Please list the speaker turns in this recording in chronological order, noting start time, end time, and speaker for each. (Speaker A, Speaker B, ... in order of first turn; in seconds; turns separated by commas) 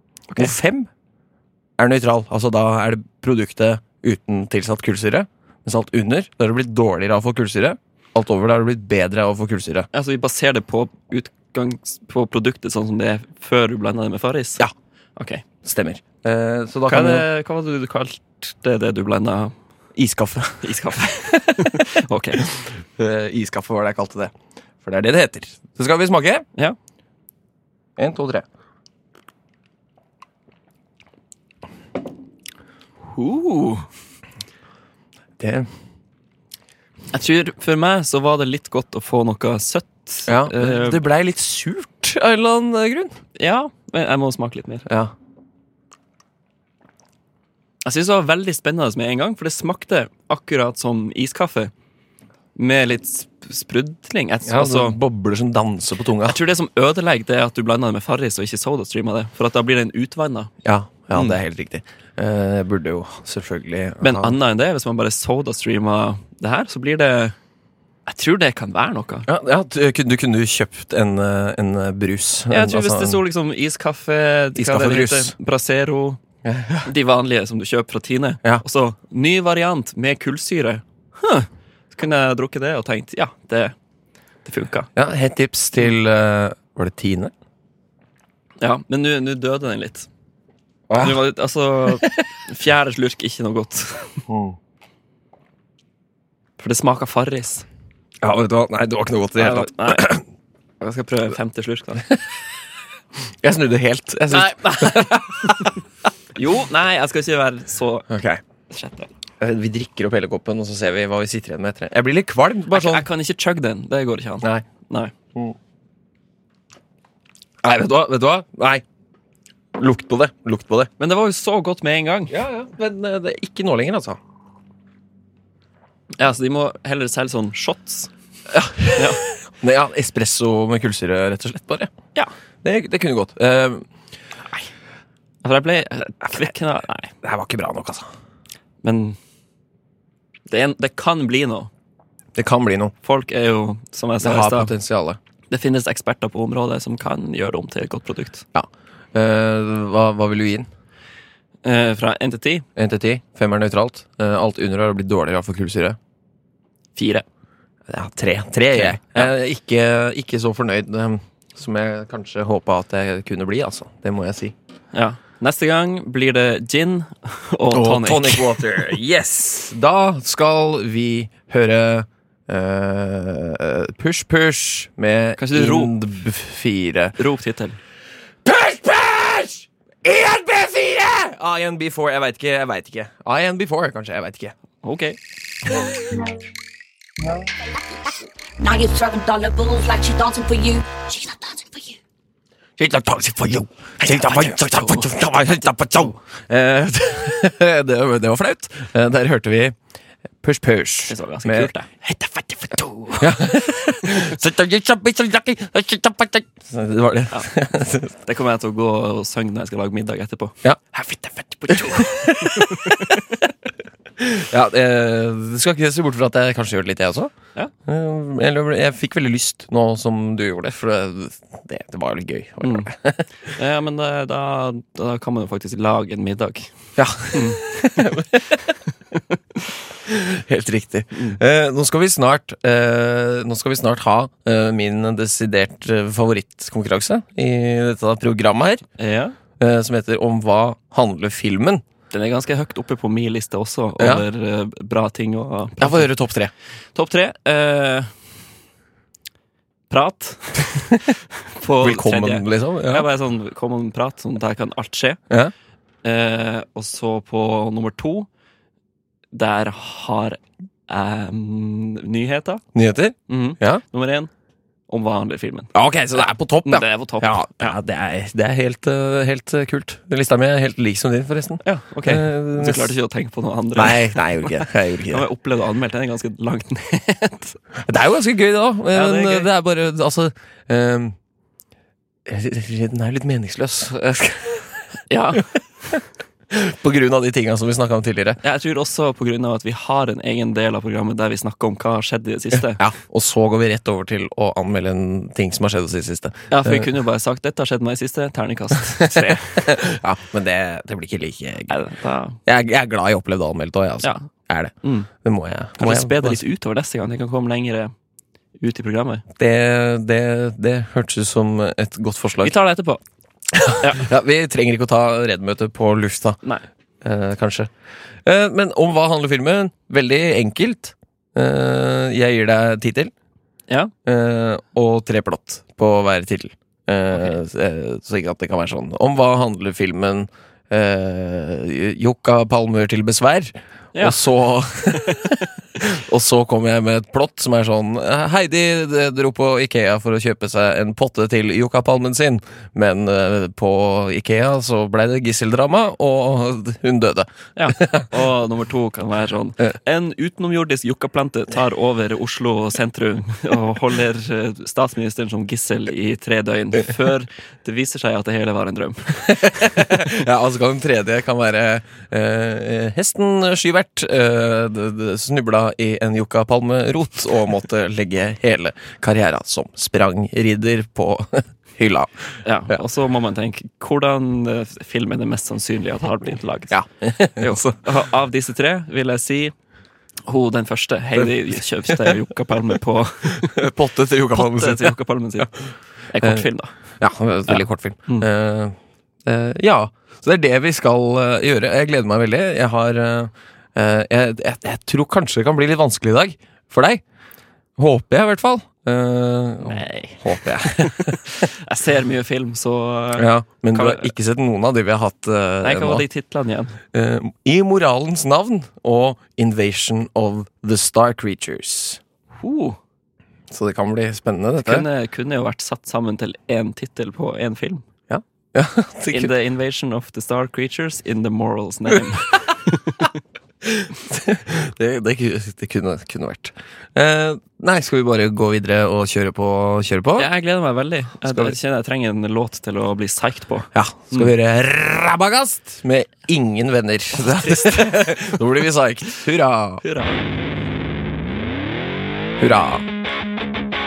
Speaker A: 0.4-0.9, Speaker A: 1.8-9.9, Speaker B: 9.9-14.6, Speaker B: 15.2-15.4, Speaker A: 15.6-17.3, Speaker B: 16.9-19.6, Speaker A: 20.0-21.8, Speaker B: 20.6-22.4, Speaker A: 22.5-26.5, Speaker A: 28.0-28.4, Speaker B: 33.0-33.9, Speaker A: 35.4-35.7, Speaker B: 37.1-41.0, Speaker A: 40.3-43.1, Speaker B: 43.4-44.9, Speaker A: 44.9-45.1, Speaker B: 47.8-51.7, Speaker B: 52.5-55.0, Speaker A: 54.5-56.4, Speaker B: 56.2-60.5, Speaker A: 60.6-64.4, Speaker B: 64.0-67.3, Speaker B: 68.1-69.3, Speaker A: 69.3-73.2, Speaker B: 72.5-76.2, Speaker A: 74.5-75.3, Speaker A: 76.4-76.9, Speaker B: 76.8-83.8, Speaker B: 84.5-84.9, Speaker A: 85.0-87.3, Speaker B: 88.6-90.1, Speaker A: 90.9-91.2, Speaker B: 91.0-94.2, Speaker A: 94.3-94.6, Speaker B: 96.6-97.7, Speaker A: 98.2-100.2, Speaker B: 99.4-100.1, Speaker B: 100.8-102.1, Speaker A: 103.4-105.8, Speaker B: 104.3-105.7, Speaker B: 106.3-108.1, Speaker A: 108.1-108.4, Speaker B: 108.7-109.1, Speaker A: 109.4-113.1, Speaker B: 112.7-115.1, Speaker A: 117.6-118.8, Speaker A: 119.7-120.9, Speaker B: 121.0-122.4, Speaker A: 122.3-124.2, Speaker B: 126.2-128.1, Speaker A: 128.5-131.9, Speaker B: 128.9-129.2, Speaker A: 132.6-133.8, Speaker B: 135.4-137.1, Speaker A: 137.2-138.1, Speaker B: 138.8-139.2, Speaker B: 140.5-141.7, Speaker A: 142.4-142.9, Speaker B: 143.0-144.7, Speaker A: 144.2-145.2, Speaker B: 145.5-148.4, Speaker A: 148.5-150.7, Speaker B: 151.7-152.7, Speaker A: 152.8-156.0, Speaker B: 157.0-157.2, Speaker A: 157.9-164.6, Speaker B: 158.7-159.3, Speaker B: 164.9-168.8, Speaker A: 167.7-177.2, Speaker B: 175.4-175.9, Speaker B: 177.2-177.8, Speaker A: 178.4-184.6, Speaker B: 184.8-185.2, Speaker C: 187.8-192.0, Speaker A: 192.8-199.8, Speaker B: 194.2-195.1, Speaker A: 200.4-208.1, Speaker B: 201.1-201.9, Speaker B: 202.7-203.3, Speaker B: 208.2-210.6, Speaker A: 210.6-213.2, Speaker B: 211.6-213.0, Speaker A: 214.2-217.3, Speaker A: 217.9-223.3, Speaker B: 222.6-222.9, Speaker B: 223.5-226.7, Speaker A: 227.0-228.6, Speaker B: 227.3-227.6, Speaker A: 230.1-238.8, Speaker B: 231.1-231.4, Speaker B: 239.0-239.3, Speaker A: 239.6-241.8, Speaker B: 242.1-246.1, Speaker A: 244.0-244.2, Speaker A: 245.8-246.5, Speaker B: 246.9-248.1, Speaker B: 249.9-251.0, Speaker B: 251.6-255.2, Speaker A: 251.8-253.1, Speaker B: 256.0-258.3, Speaker B: 259.3-262.6, Speaker A: 262.7-263.8, Speaker B: 263.3-264.3, Speaker B: 264.9-265.7, Speaker A: 265.7-272.9, Speaker B: 266.6-267.8, Speaker B: 271.6-277.6, Speaker A: 273.8-275.3, Speaker A: 277.9-281.2, Speaker B: 278.9-279.5, Speaker A: 282.3-284.8, Speaker B: 285.1-285.5, Speaker A: 286.5-288.4, Speaker B: 288.4-292.8, Speaker A: 292.7-296.9, Speaker B: 296.5-299.8, Speaker A: 299.1-301.7, Speaker B: 301.7-302.4, Speaker A: 302.4-306.4, Speaker B: 304.0-304.3, Speaker B: 304.8-305.1, Speaker B: 305.8-307.9, Speaker B: 308.6-309.2, Speaker A: 309.4-312.6, Speaker B: 312.4-313.0, Speaker A: 313.5-316.4, Speaker B: 313.8-314.1, Speaker A: 317.0-317.7, Speaker A: 318.2-323.1, Speaker A: 324.1-348.1, Speaker B: 333.9-334.2, Speaker B: 347.6-359.7, Speaker A: 359.3-372.1, Speaker B: 372.4-376.8, Speaker A: 376.7-377.8, Speaker B: 377.4-379.5, Speaker B: 380.3-383.6, Speaker A: 383.4-385.6, Speaker B: 384.3-385.5, Speaker B: 386.1-386.7, Speaker A: 386.2-386.5, Speaker A: 387.0-397.0, Speaker B: 387.5-388.3, Speaker A: 397.8-401.3, Speaker B: 399.6-404.1, Speaker A: 403.2-406.1, Speaker B: 405.6-406.8, Speaker A: 406.9-412.0, Speaker B: 412.4-412.8, Speaker A: 413.5-414.9, Speaker B: 414.6-417.9, Speaker A: 418.1-419.3, Speaker B: 419.1-423.1, Speaker A: 423.6-430.3, Speaker B: 430.2-434.3, Speaker A: 431.2-431.6, Speaker A: 433.7-439.8, Speaker B: 437.1-438.2, Speaker B: 439.8-440.2, Speaker A: 442.4-442.9